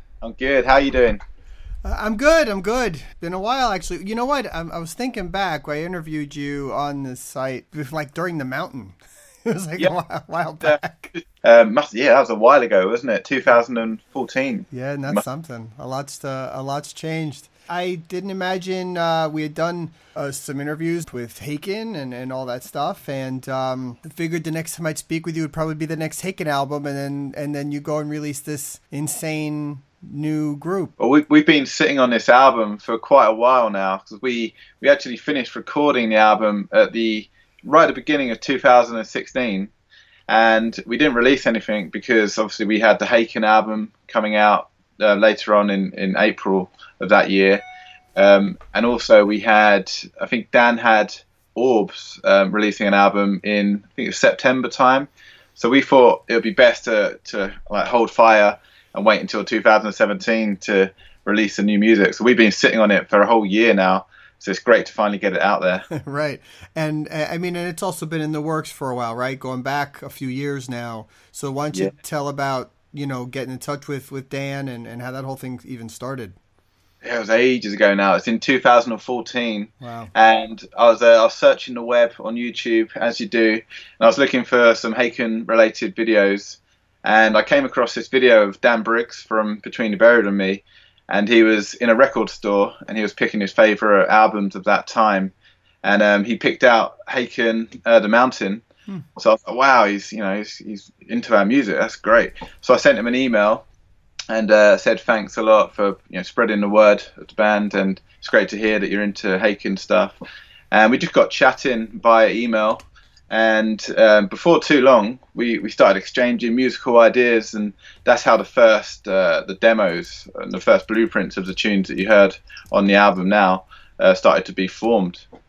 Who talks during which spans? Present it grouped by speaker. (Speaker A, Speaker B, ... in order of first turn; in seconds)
Speaker A: 0.2-1.2, 10.6-15.2, 31.0-39.7, 40.3-47.6, 48.1-65.8, 77.0-98.6, 99.2-103.6, 104.3-110.2, 110.7-125.2
Speaker B: 1.8-11.1, 14.7-30.9, 65.9-76.4, 79.8-80.1